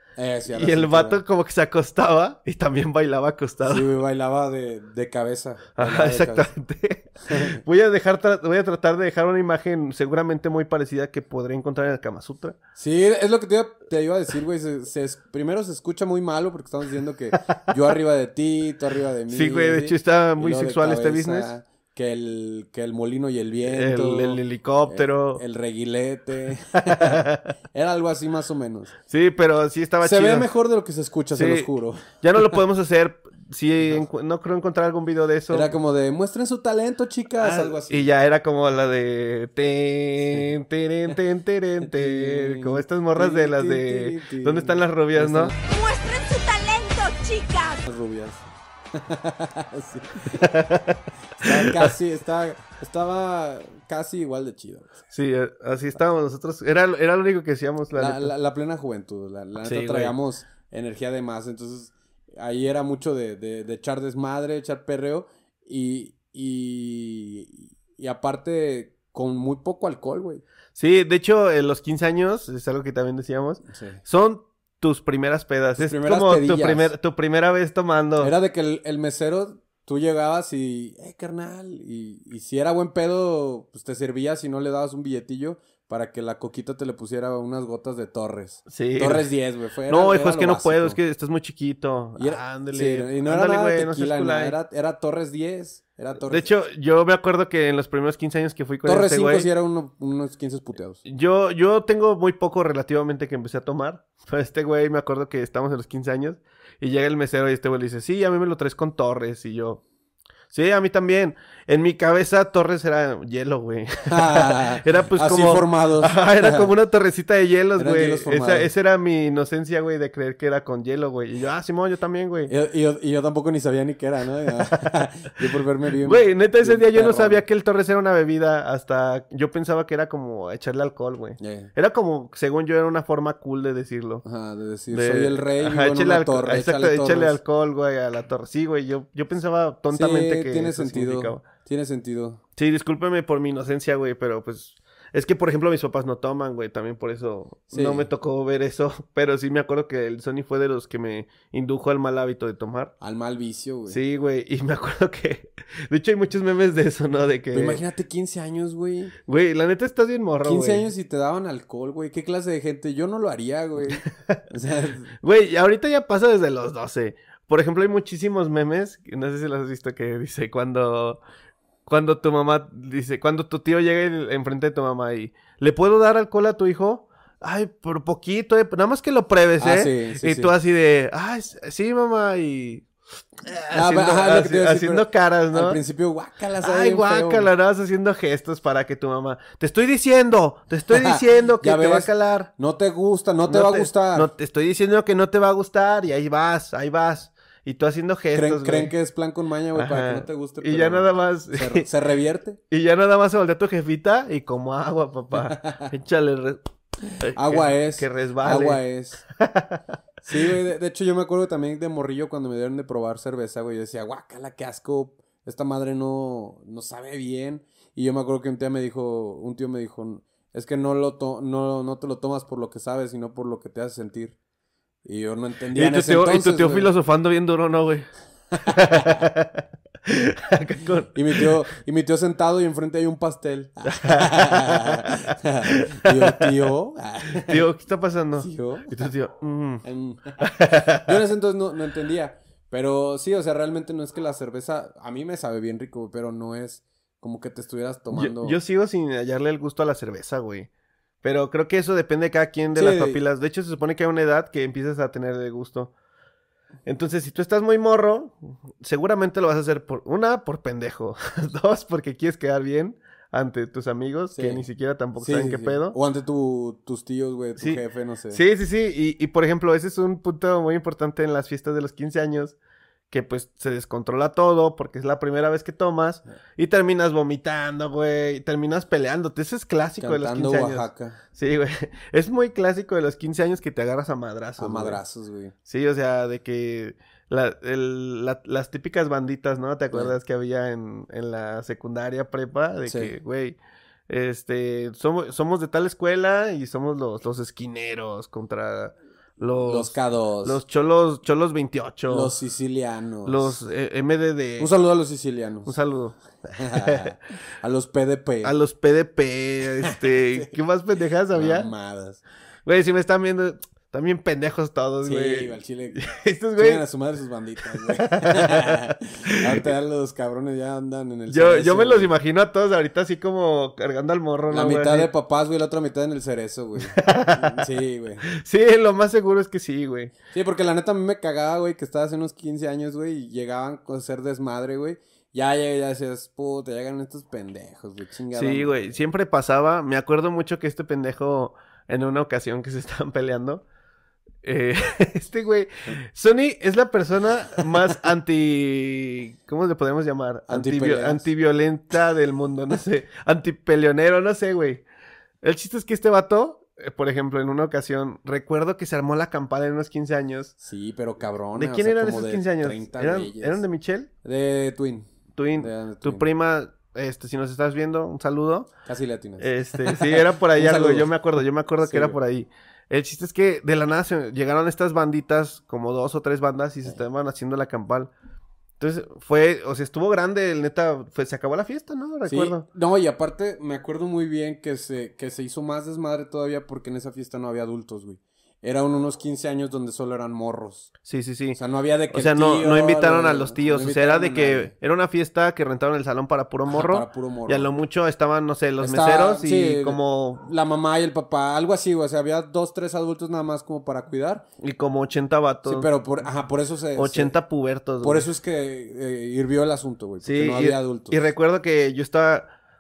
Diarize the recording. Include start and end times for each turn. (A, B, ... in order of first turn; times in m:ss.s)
0:00.2-0:01.2 A
0:00.5-0:03.9 B
0:03.7-0:06.5 A
0:05.8-0:12.6 B
0:07.3-0:07.6 A
0:12.8-0:28.9 A
0:19.3-0:21.5 B
0:23.7-0:25.4 B
0:26.8-0:27.5 B
0:29.1-0:30.5 B
0:30.0-0:32.6 A
0:31.4-0:35.7 B
0:35.5-0:38.1 A
0:37.4-0:45.5 B
0:40.3-0:40.5 A
0:41.8-0:45.6 A
0:45.7-0:47.9 C
0:47.9-0:50.6 A
0:50.3-0:51.9 B
0:51.4-0:55.0 A
0:55.1-0:58.3 B
0:58.0-1:10.4 A
0:59.6-1:00.2 B
1:10.8-1:18.3 B
1:13.7-1:14.0 A
1:15.8-1:16.9 A
1:18.2-1:31.0 A
1:28.7-1:29.3 B
1:29.9-1:34.6 B
1:32.2-1:36.5 A
1:36.2-1:39.5 B
1:38.8-1:41.0 A
1:41.0-1:49.8 B
1:50.5-2:02.5 B
1:54.1-1:56.7 A
1:57.8-1:58.7 A
2:02.5-2:07.4 A
2:06.0-2:14.2 B
2:11.4-2:11.7 A
2:14.2-2:17.4 A
2:14.9-2:21.4 B
2:19.9-2:22.4 A
2:22.6-2:32.9 B
2:27.7-2:28.1 A
2:33.0-2:34.0 A
2:33.9-2:37.8 B
2:37.5-2:39.1 A
2:39.3-2:40.9 B
2:40.4-2:45.1 A
2:43.9-2:44.4 B
2:45.2-2:51.2 B
2:51.9-3:02.9 B
2:59.6-3:00.5 A
3:03.4-3:05.8 B
3:03.7-3:07.5 A
3:06.6-3:12.5 B
3:10.9-3:14.3 A
3:13.5-3:18.9 B
3:18.3-3:22.6 A
3:19.8-3:21.9 B
3:22.7-3:28.8 B
3:25.3-3:25.9 A
3:27.3-3:29.2 A
3:29.4-3:29.8 B
3:30.2-3:44.4 A
3:45.0-3:46.9 A
3:45.8-3:48.1 B
3:48.5-3:49.2 A
3:48.6-3:51.5 B
3:51.1-3:57.6 A
3:53.9-3:56.5 B
3:57.4-3:59.8 B
3:58.4-3:59.0 A
3:59.8-4:00.4 A
4:00.4-4:01.2 B
4:01.0-4:08.6 A
4:08.1-4:10.7 B
4:11.2-4:15.9 B
4:12.8-4:13.2 A
4:16.9-4:26.0 B
4:24.3-4:24.7 A
4:25.2-4:28.4 A
4:27.6-4:32.6 B
4:33.1-4:45.0 B
4:40.0-4:41.2 A
4:44.6-4:45.5 A
4:45.7-4:53.6 B
4:52.9-4:53.2 A
4:54.1-5:02.3 B
4:59.6-5:00.6 A
5:02.1-5:03.6 A
5:03.2-5:04.7 B
5:04.6-5:05.8 A
5:05.6-5:07.1 B
5:06.6-5:08.5 A
5:08.4-5:11.7 B
5:09.8-5:10.5 A
5:11.3-5:12.2 A
5:12.7-5:16.8 B
5:15.0-5:16.1 A
5:16.6-5:22.1 A
5:17.8-5:19.7 B
5:21.3-5:25.1 B
5:24.5-5:28.3 A
5:26.8-5:27.6 B
5:28.3-5:30.1 B
5:30.3-5:38.9 A
5:38.3-5:43.6 B
5:44.4-5:54.8 B
5:47.6-5:47.8 A
5:50.5-5:51.3 A
5:55.4-6:00.5 B
6:00.6-6:03.6 A
6:01.6-6:04.1 B
6:04.2-6:06.3 A
6:05.4-6:08.7 B
6:08.8-6:11.2 A
6:09.4-6:18.1 B
6:11.8-6:12.2 A
6:18.8-6:22.6 B
6:22.2-6:30.9 A
6:31.1-6:31.6 B
6:31.6-6:34.7 A
6:32.1-6:40.4 B
6:36.7-6:37.7 A
6:38.8-6:44.5 A
6:44.6-6:45.9 B
6:45.6-6:47.4 A
6:47.0-6:48.3 B
6:48.0-6:51.2 A
6:50.2-6:52.5 B